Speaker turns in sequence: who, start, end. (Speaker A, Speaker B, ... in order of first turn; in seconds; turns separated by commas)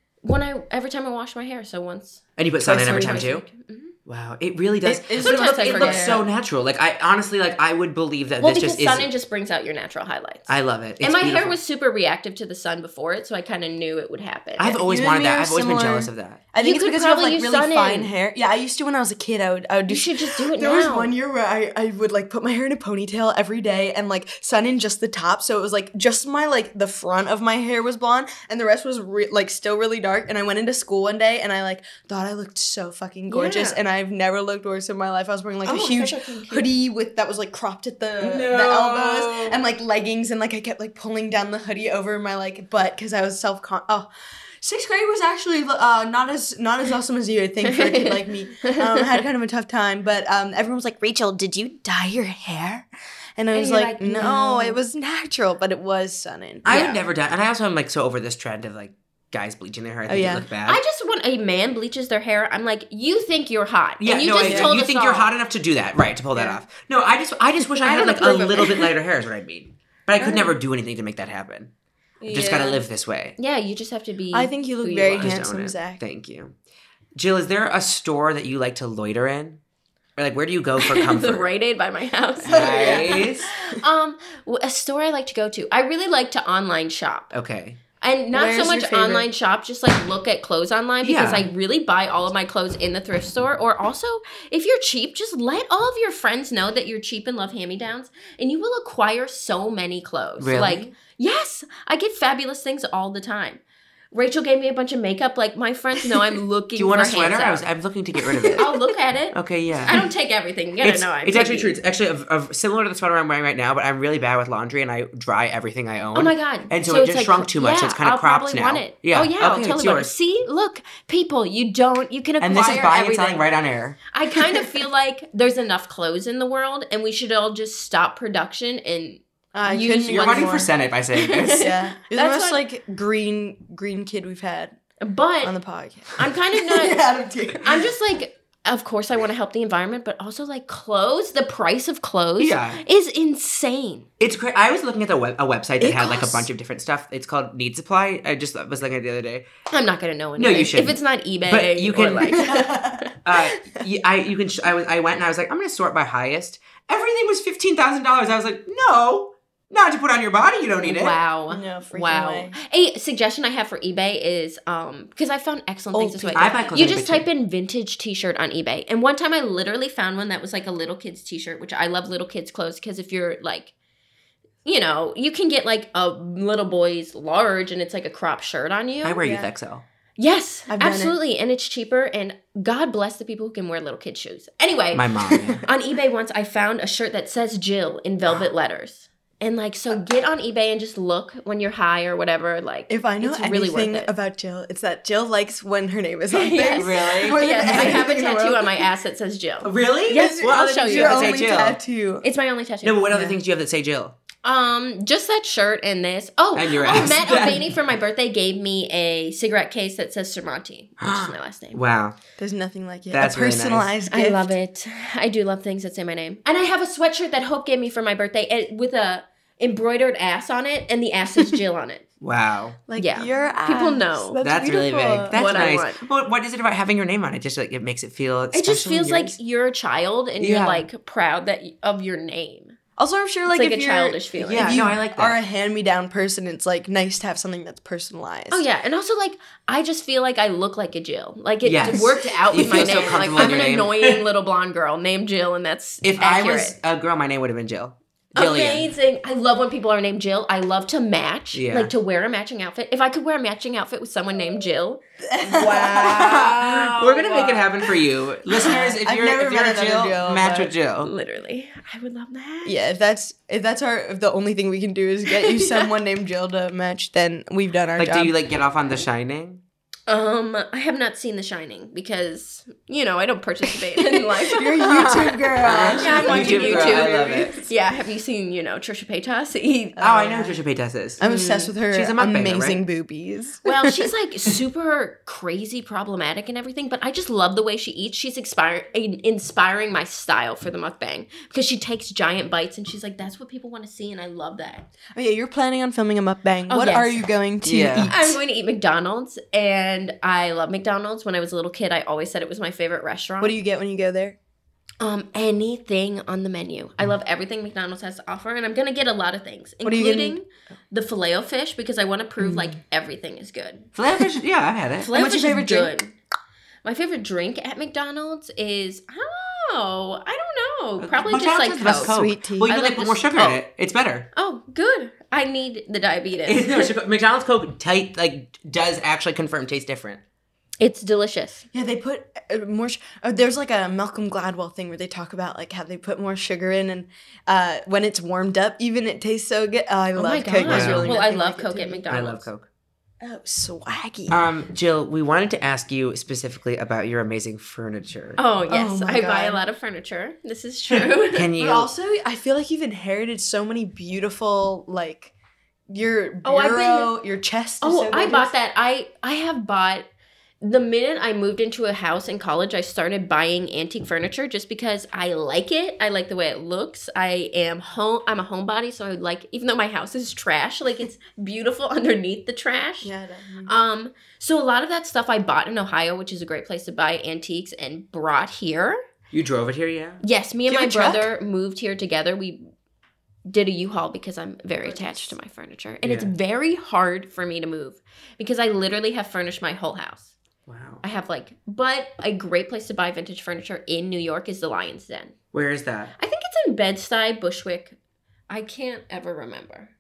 Speaker A: 0.2-3.9, Speaker B: 2.4-3.5, Speaker C: 2.6-3.3, Speaker B: 4.1-9.1, Speaker C: 4.8-6.2, Speaker A: 5.2-6.2, Speaker A: 8.4-14.8, Speaker B: 10.5-11.6, Speaker B: 14.6-16.4, Speaker C: 14.8-44.1, Speaker A: 16.6-18.1, Speaker A: 19.9-21.1, Speaker A: 33.3-33.8, Speaker A: 35.6-36.7, Speaker B: 38.2-39.6, Speaker C: 44.6-56.8, Speaker A: 47.6-49.2, Speaker A: 53.5-54.8, Speaker B: 56.6-60.8, Speaker A: 56.7-57.0, Speaker C: 60.1-60.5, Speaker A: 60.7-65.3, Speaker B: 64.0-71.7, Speaker C: 64.4-64.8, Speaker A: 67.8-68.9, Speaker C: 70.2-70.5, Speaker A: 72.2-72.8, Speaker B: 72.3-73.4, Speaker A: 73.4-75.4, Speaker C: 74.3-76.0, Speaker B: 75.2-76.5, Speaker B: 77.2-79.6, Speaker B: 80.2-81.5, Speaker A: 80.8-87.3, Speaker B: 82.4-83.5, Speaker C: 82.5-83.3, Speaker B: 87.3-87.8, Speaker A: 88.0-103.6, Speaker C: 88.3-89.3, Speaker B: 91.0-91.5, Speaker B: 100.4-100.9, Speaker A: 104.1-107.6, Speaker B: 106.8-108.7, Speaker A: 108.6-111.8, Speaker B: 109.3-110.0, Speaker B: 110.8-120.1, Speaker A: 116.1-123.4, Speaker B: 122.4-124.0, Speaker A: 124.1-130.6, Speaker C: 129.5-130.7, Speaker B: 130.1-131.7, Speaker A: 131.1-132.6, Speaker C: 131.4-134.8, Speaker A: 135.0-135.6, Speaker C: 135.4-137.9, Speaker A: 136.2-137.0, Speaker A: 137.6-144.1, Speaker B: 142.4-142.8, Speaker B: 144.2-149.5, Speaker C: 145.8-146.5, Speaker A: 149.7-153.1, Speaker B: 150.4-152.6, Speaker C: 152.4-153.1, Speaker B: 153.2-161.2, Speaker A: 160.8-173.7, Speaker C: 161.5-162.6, Speaker C: 165.9-166.7, Speaker B: 166.3-167.3, Speaker A: 174.7-179.2, Speaker B: 179.0-179.8, Speaker C: 179.2-179.5, Speaker A: 180.2-194.1, Speaker C: 180.7-181.2, Speaker B: 184.9-185.6, Speaker C: 192.9-198.9, Speaker A: 196.3-201.5, Speaker B: 196.8-198.1, Speaker B: 199.6-201.8, Speaker C: 200.1-202.2, Speaker A: 202.2-203.1, Speaker B: 202.8-204.2, Speaker A: 204.4-211.8, Speaker B: 206.5-207.7, Speaker B: 211.0-212.2, Speaker C: 212.4-214.6, Speaker B: 213.1-213.9, Speaker A: 214.1-222.1, Speaker B: 222.2-222.8, Speaker C: 222.9-225.4, Speaker A: 223.0-224.4, Speaker B: 224.4-229.4, Speaker A: 225.3-226.0, Speaker A: 228.5-232.8, Speaker B: 230.4-230.9, Speaker C: 233.0-238.6, Speaker A: 233.5-234.8, Speaker B: 234.4-235.4, Speaker A: 238.5-246.8, Speaker B: 241.6-244.2, Speaker C: 241.9-243.5, Speaker B: 246.0-248.9, Speaker A: 248.4-257.6, Speaker B: 251.5-251.9, Speaker C: 255.3-256.5, Speaker B: 256.1-261.1, Speaker C: 258.5-260.7, Speaker A: 261.0-262.8, Speaker C: 262.6-268.3, Speaker A: 265.4-265.9, Speaker B: 268.0-269.6, Speaker A: 270.1-280.1, Speaker C: 273.9-277.6, Speaker B: 274.9-277.5, Speaker C: 280.0-280.6, Speaker B: 280.0-281.2, Speaker C: 281.2-283.7, Speaker A: 281.2-281.7, Speaker B: 281.9-282.8, Speaker A: 283.6-294.9, Speaker C: 295.1-298.4, Speaker A: 296.7-297.2, Speaker B: 297.6-298.1, Speaker A: 298.1-303.5, Speaker C: 303.4-304.4, Speaker A: 305.0-313.9, Speaker C: 309.8-310.4, Speaker C: 312.4-312.7, Speaker B: 314.0-315.1, Speaker A: 315.0-316.1, Speaker C: 315.1-315.9, Speaker A: 316.8-322.2, Speaker B: 321.0-324.3, Speaker C: 321.9-322.7, Speaker A: 322.7-323.6, Speaker A: 324.3-326.9, Speaker B: 326.5-330.2, Speaker A: 330.8-331.6, Speaker C: 331.7-342.1, Speaker A: 340.2-342.5, Speaker B: 340.6-341.2, Speaker B: 342.1-342.7, Speaker C: 343.2-344.4, Speaker B: 344.3-348.4, Speaker A: 348.4-351.5, Speaker C: 348.7-349.6, Speaker B: 351.3-351.9, Speaker C: 351.6-355.3, Speaker C: 355.9-358.5, Speaker A: 356.4-357.1, Speaker A: 357.8-360.1, Speaker A: 360.6-373.1, Speaker C: 373.0-373.7, Speaker A: 373.7-379.0, Speaker B: 379.3-380.2, Speaker A: 380.2-382.6, Speaker C: 380.7-381.3, Speaker A: 383.5-390.3, Speaker C: 384.8-385.4, Speaker B: 386.0-386.3, Speaker B: 390.7-391.0, Speaker A: 391.0-395.4, Speaker B: 395.5-396.1, Speaker A: 396.2-398.0, Speaker A: 398.5-399.9